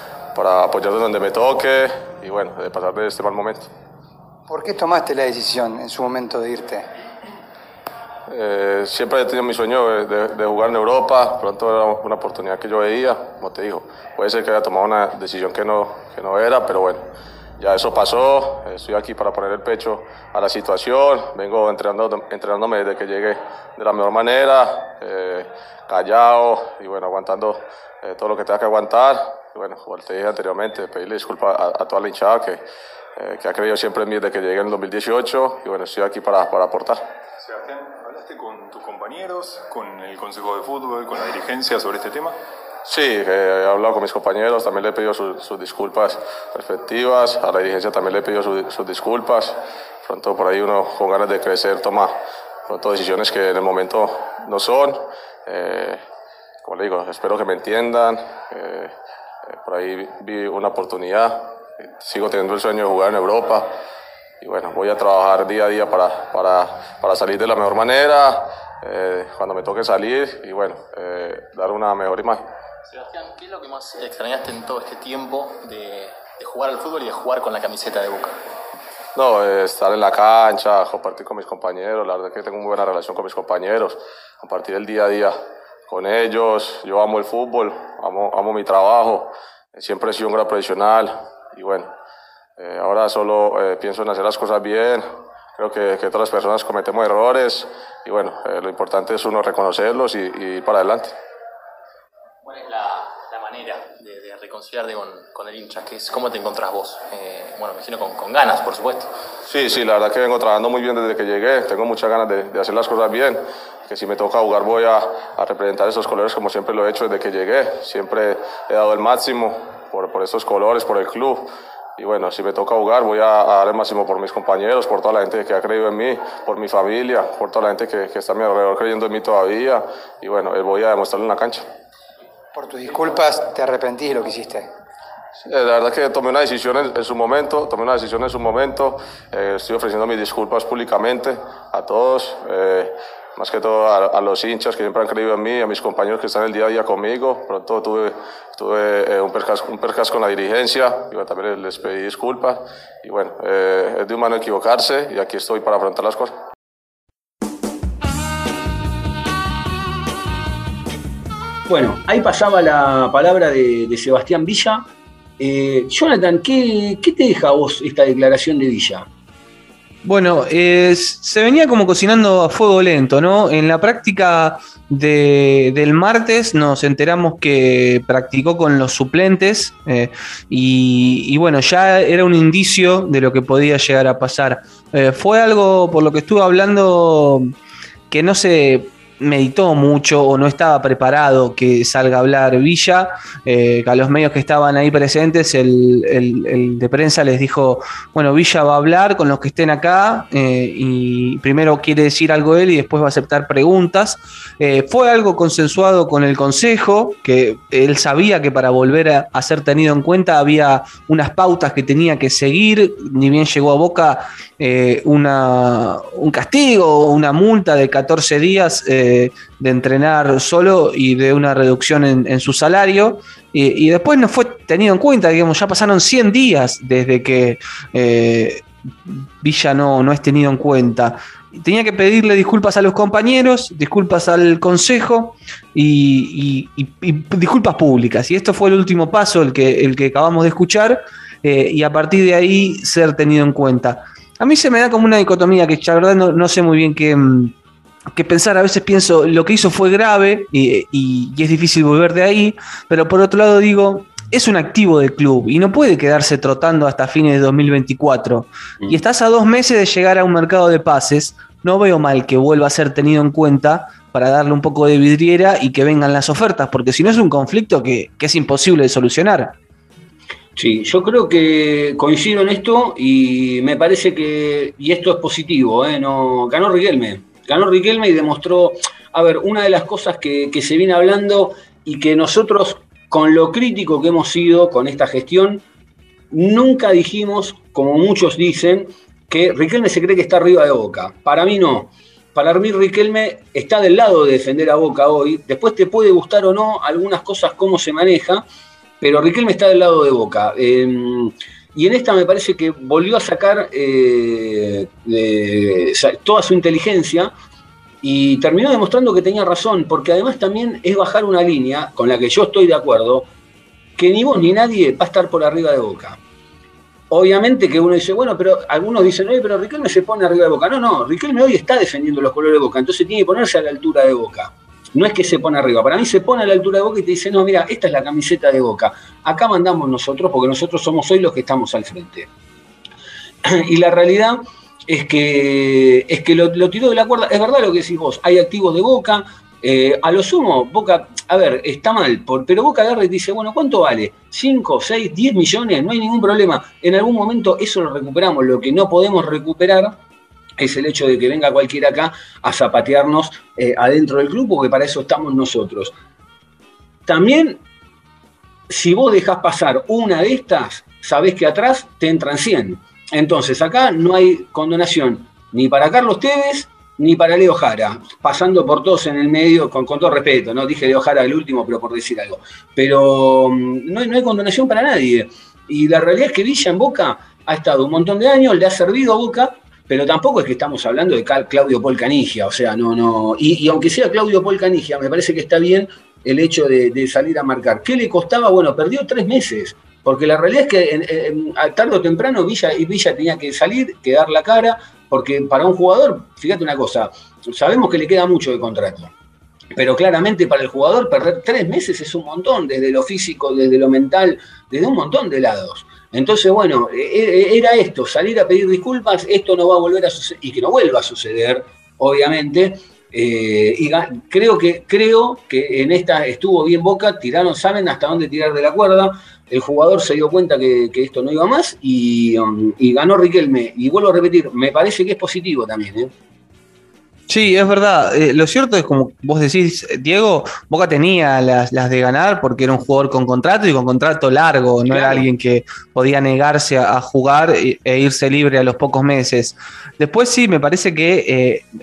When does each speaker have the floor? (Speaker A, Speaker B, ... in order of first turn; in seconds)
Speaker A: 0.3-3.7, 8.3-17.0, 17.6-32.6, 33.2-37.0, 42.9-52.1, 52.7-56.0, 56.6-58.9, 59.6-63.7, 64.4-72.4, 79.1-85.3, 85.9-91.9, 92.6-95.0, 95.6-101.1, 109.5-131.7, 135.4-156.3
Speaker B: 4.5-6.9, 132.5-134.7
Speaker C: 37.4-42.4
Speaker D: 72.9-78.4, 102.4-109.1
Speaker E: 161.7-164.8, 165.4-169.1, 270.6-285.6, 286.3-298.4, 299.0-307.3, 308.0-313.3, 314.0-316.2, 317.1-332.3, 333.4-350.0, 350.6-355.9, 357.1-357.6, 358.7-399.1, 399.8-426.1, 434.9-435.2
Speaker F: 170.0-187.5, 188.1-247.5, 248.1-269.5, 427.3-441.7